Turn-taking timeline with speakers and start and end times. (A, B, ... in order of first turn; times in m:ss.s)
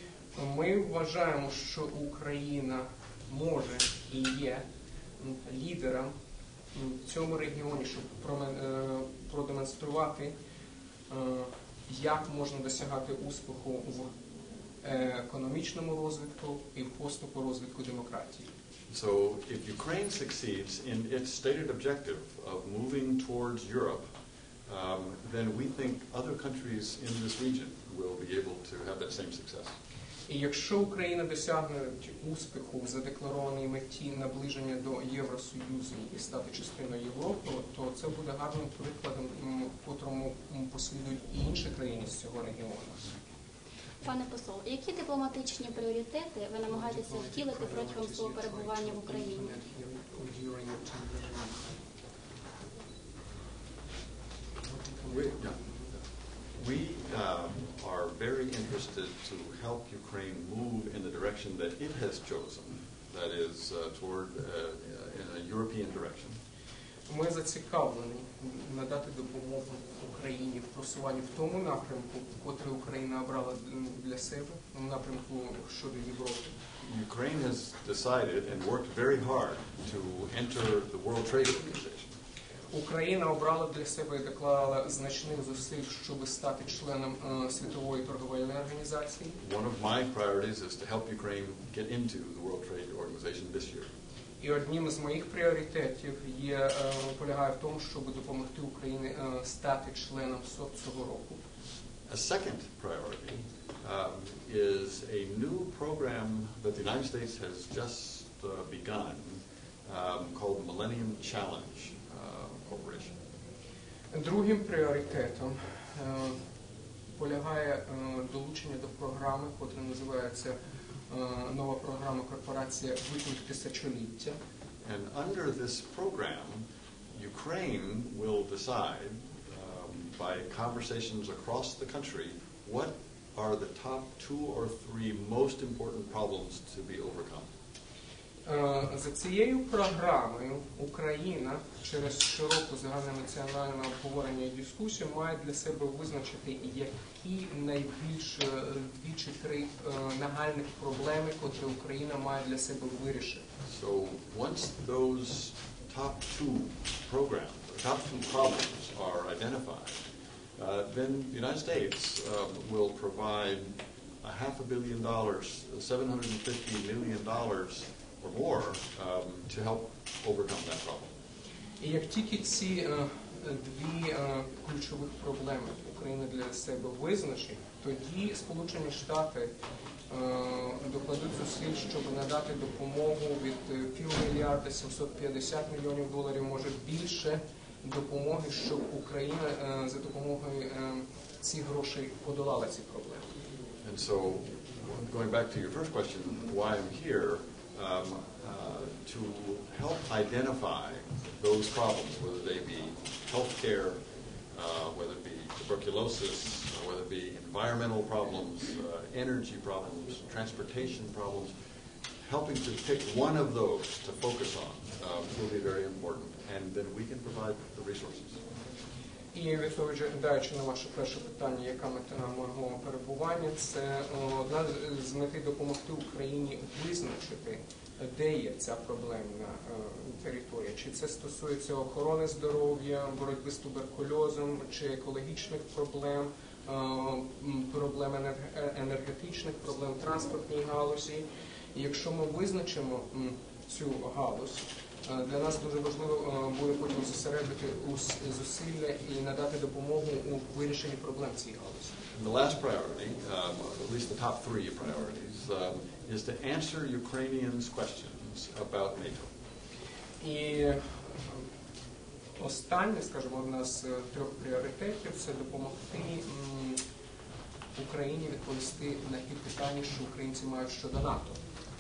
0:00.3-0:04.6 A
0:05.2-0:06.1 A
0:06.7-0:10.3 A
0:11.1-0:14.1 A
0:14.8-0:18.5 A
0:18.9-0:24.1 B
0:24.7-0:29.8 B
0:30.3-0:43.1 A
0:44.0-0:49.6 C
0:46.7-0:51.7 A
0:54.6-0:55.9 A
0:55.1-0:55.6 B
0:56.5-1:06.4 B
1:07.1-1:16.5 A
1:16.8-1:22.1 B
1:22.7-1:29.4 A
1:29.4-1:33.9 B
1:34.4-1:41.4 A
1:42.1-1:53.1 B
1:54.1-1:56.4 A
1:57.2-2:00.6 A
2:01.1-2:04.4 A
2:04.8-2:17.5 B
2:18.4-2:33.5 A
2:33.7-2:40.0 B
2:40.6-2:51.1 B
2:51.8-2:59.5 A
3:00.1-3:13.3 A
3:13.8-3:24.0 B
3:24.5-3:31.5 B
3:32.2-3:38.4 B
3:39.3-4:12.0 A
4:12.1-4:19.3 B
4:20.2-4:21.5 A
4:22.4-4:26.8 A
4:27.8-4:31.4 A